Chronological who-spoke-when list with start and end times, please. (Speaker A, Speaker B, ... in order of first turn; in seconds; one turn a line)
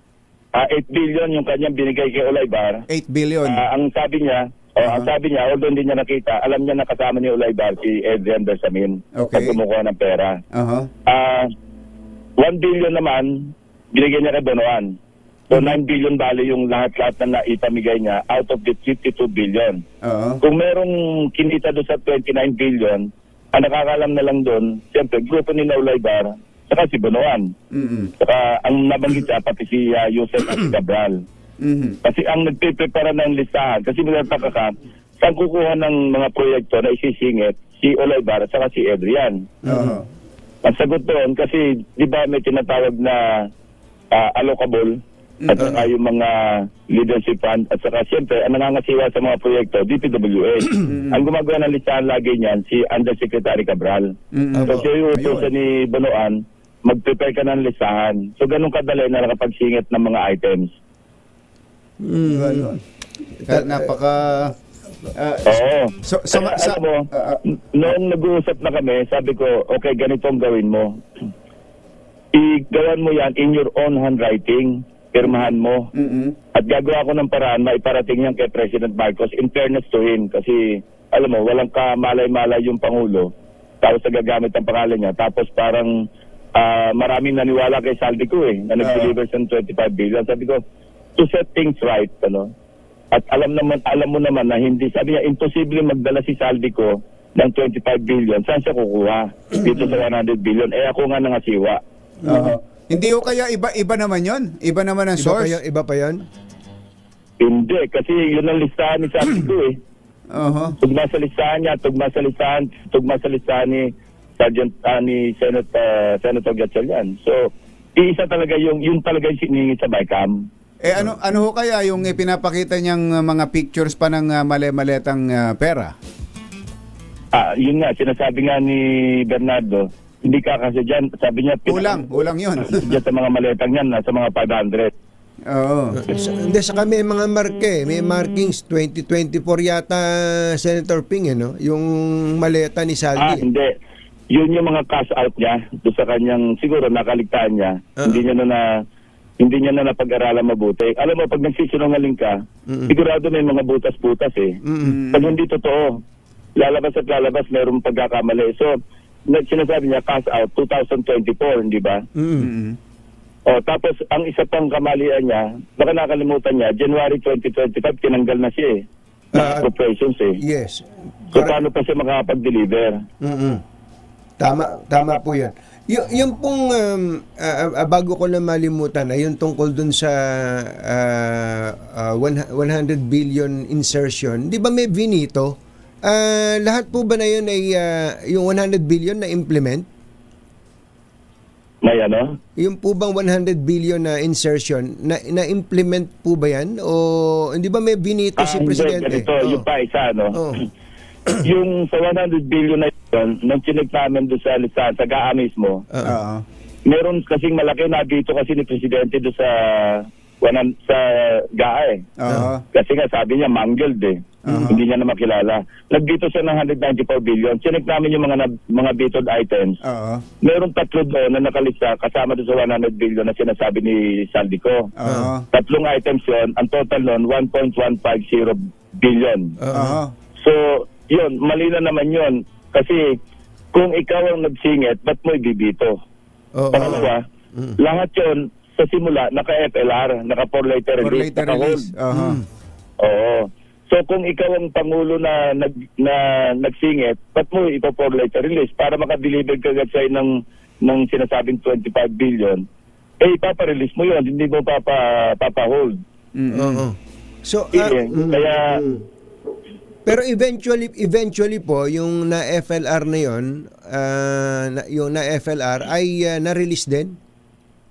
Speaker A: 0.5-2.9
Speaker B: 2.9-3.6
Speaker A: 3.4-10.4
Speaker B: 4.8-5.1
Speaker B: 9.1-9.6
Speaker B: 10.5-10.9
Speaker A: 11.1-11.5
Speaker A: 12.4-14.9
Speaker A: 15.5-19.8
Speaker B: 20.0-20.4
Speaker A: 20.4-27.5
Speaker B: 27.7-28.1
Speaker A: 28.2-31.1
Speaker B: 31.6-31.9
Speaker A: 32.0-39.4
Speaker C: 39.6-40.0
Speaker B: 39.6-40.0
Speaker A: 40.6-43.5
Speaker A: 44.1-45.0
Speaker B: 45.4-45.7
Speaker A: 45.5-54.1
Speaker B: 50.8-51.2
Speaker B: 54.3-55.5
Speaker C: 54.5-54.9
Speaker A: 54.7-60.7
Speaker C: 62.0-62.8
Speaker B: 62.2-62.8
Speaker C: 63.5-63.9
Speaker B: 63.5-64.5
Speaker B: 65.1-67.4
Speaker A: 65.5-70.9
Speaker A: 72.3-75.9
Speaker B: 75.9-76.3
Speaker A: 76.5-83.3
Speaker A: 83.8-85.9
Speaker A: 86.5-90.6
Speaker B: 88.8-89.1
Speaker A: 91.2-92.5
Speaker A: 93.1-101.8
Speaker B: 102.2-105.5
Speaker C: 102.2-102.5
Speaker C: 105.2-106.2
Speaker A: 107.4-109.7
Speaker B: 110.3-110.7
Speaker A: 110.8-113.9
Speaker A: 114.4-117.4
Speaker A: 118.0-120.4
Speaker B: 120.8-125.9
Speaker A: 127.3-132.0
Speaker B: 131.7-133.0
Speaker A: 132.6-134.9
Speaker B: 135.5-136.0
Speaker C: 135.9-143.4
Speaker A: 143.2-143.7
Speaker A: 144.3-148.7
Speaker A: 149.4-156.0
Speaker C: 152.7-152.9
Speaker C: 154.6-155.0
Speaker B: 154.8-155.3
Speaker A: 156.6-158.7
Speaker A: 159.3-162.0
Speaker C: 162.1-162.5
Speaker B: 162.4-162.8
Speaker A: 163.5-168.7
Speaker C: 169.3-169.7
Speaker A: 169.3-170.4
Speaker C: 170.4-171.6
Speaker A: 171.3-172.9
Speaker C: 173.2-173.6
Speaker C: 174.4-189.8
Speaker A: 191.8-192.3
Speaker C: 192.6-199.7
Speaker A: 198.4-200.4
Speaker C: 200.3-200.6
Speaker A: 201.4-205.8
Speaker C: 205.9-206.2
Speaker B: 206.0-206.4
Speaker A: 206.9-219.8
Speaker B: 212.2-212.6
Speaker B: 214.4-214.8
Speaker C: 214.5-214.7
Speaker B: 219.8-220.2
Speaker A: 220.4-224.9
Speaker B: 225.0-225.4
Speaker C: 225.0-225.3
Speaker A: 225.5-229.6
Speaker C: 229.6-230.0
Speaker B: 229.7-230.1
Speaker A: 230.4-233.1
Speaker A: 233.7-235.9
Speaker C: 236.5-237.8
Speaker A: 236.7-237.2
Speaker A: 237.8-241.9
Speaker B: 241.0-242.4
Speaker C: 242.1-242.4
Speaker A: 243.0-250.3
Speaker A: 250.8-252.6
Speaker A: 253.2-255.9
Speaker B: 256.4-256.8
Speaker C: 256.5-259.0
Speaker A: 257.7-258.8
Speaker C: 260.1-267.1